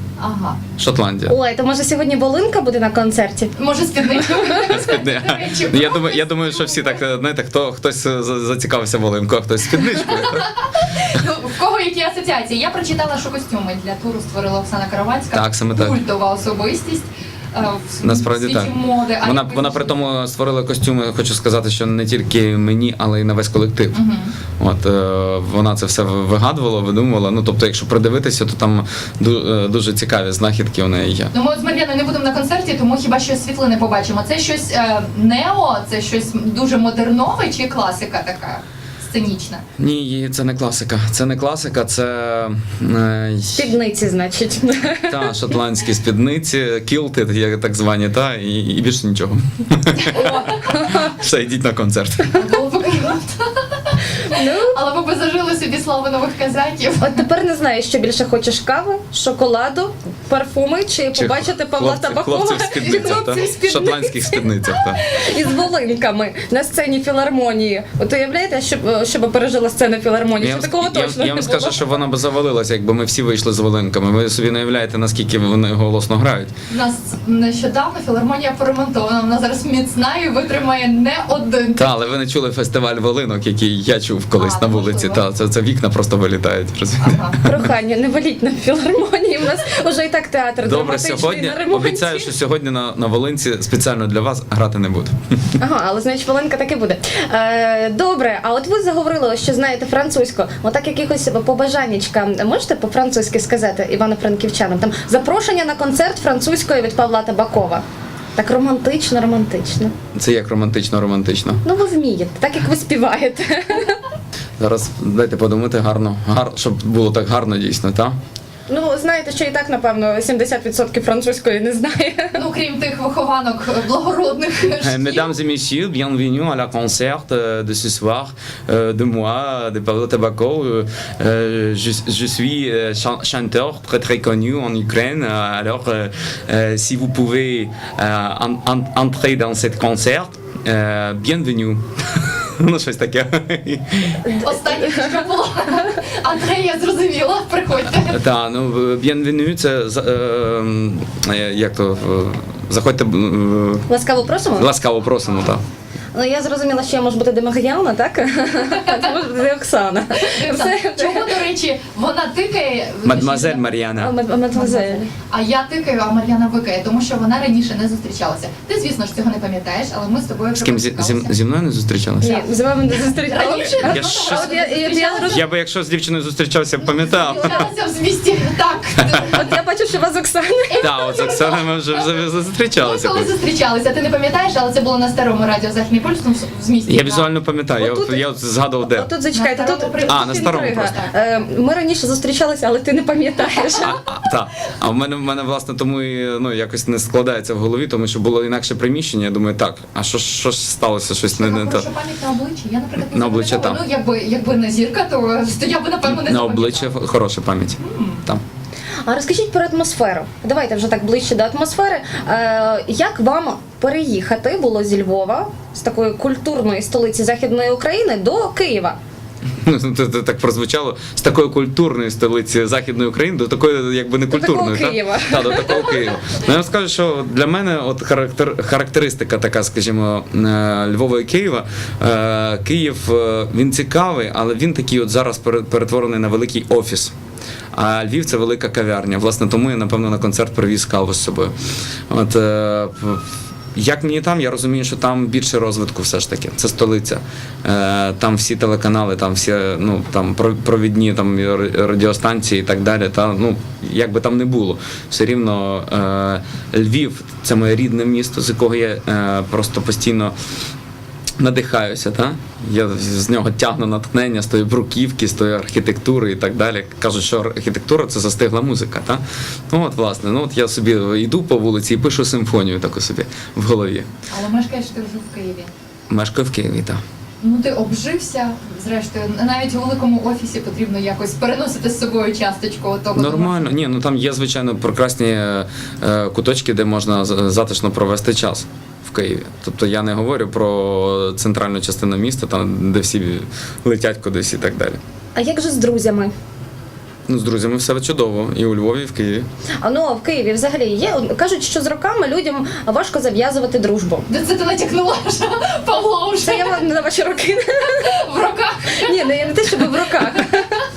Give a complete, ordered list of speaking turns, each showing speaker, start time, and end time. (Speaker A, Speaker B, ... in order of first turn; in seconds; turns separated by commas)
Speaker A: 0.2-0.6, Speaker B: 0.8-1.3, Speaker C: 1.2-3.5, Speaker A: 3.5-7.0, Speaker B: 4.7-10.5, Speaker A: 10.0-20.0, Speaker B: 15.3-16.0, Speaker B: 18.0-24.0, Speaker A: 23.9-24.3, Speaker B: 24.6-31.3, Speaker A: 31.3-39.6, Speaker B: 39.8-43.7, Speaker C: 43.5-45.3, Speaker B: 45.1-52.4, Speaker A: 50.0-50.6, Speaker C: 50.1-51.1, Speaker A: 52.4-57.2, Speaker C: 54.2-54.8, Speaker C: 57.0-71.9, Speaker B: 61.1-65.0, Speaker A: 62.8-63.6, Speaker A: 65.1-65.5, Speaker B: 70.4-76.5, Speaker A: 76.7-81.9, Speaker B: 81.8-87.6, Speaker A: 84.4-85.2, Speaker A: 87.0-87.4, Speaker C: 87.4-92.3, Speaker B: 90.6-95.5, Speaker C: 95.6-107.8, Speaker C: 108.3-109.9, Speaker B: 110.1-111.6, Speaker C: 111.6-114.0, Speaker B: 114.6-118.2, Speaker C: 118.7-122.4, Speaker A: 122.3-125.3, Speaker B: 124.8-144.3, Speaker C: 144.2-145.2, Speaker A: 144.4-148.2, Speaker B: 147.9-153.8, Speaker C: 153.9-154.7, Speaker B: 154.6-155.6, Speaker C: 156.1-161.2, Speaker A: 160.2-163.6, Speaker B: 163.0-164.1, Speaker C: 164.0-165.1, Speaker A: 164.5-171.3, Speaker B: 170.5-172.4, Speaker C: 172.2-175.4, Speaker A: 172.9-175.4, Speaker B: 173.8-174.5, Speaker B: 175.2-177.7, Speaker A: 177.0-179.5, Speaker C: 179.3-180.8, Speaker A: 180.7-181.7, Speaker B: 180.8-183.3, Speaker A: 182.8-187.3, Speaker B: 186.9-189.1, Speaker C: 187.8-188.2, Speaker C: 188.9-194.0, Speaker A: 189.3-191.1, Speaker B: 190.0-190.9, Speaker B: 193.8-201.9, Speaker A: 201.3-206.9, Speaker B: 203.0-203.8, Speaker B: 206.1-208.4, Speaker A: 207.8-208.2, Speaker C: 209.0-219.0, Speaker B: 219.6-237.1, Speaker C: 224.3-225.9, Speaker B: 237.7-241.5, Speaker B: 242.1-260.3, Speaker B: 261.4-274.1, Speaker A: 274.3-275.7, Speaker B: 276.1-277.0, Speaker A: 277.4-283.7, Speaker B: 283.1-295.0, Speaker C: 295.3-296.3, Speaker B: 297.3-299.5, Speaker C: 299.8-304.3, Speaker A: 304.3-306.8, Speaker C: 306.4-308.1, Speaker A: 307.9-310.4, Speaker C: 309.0-310.8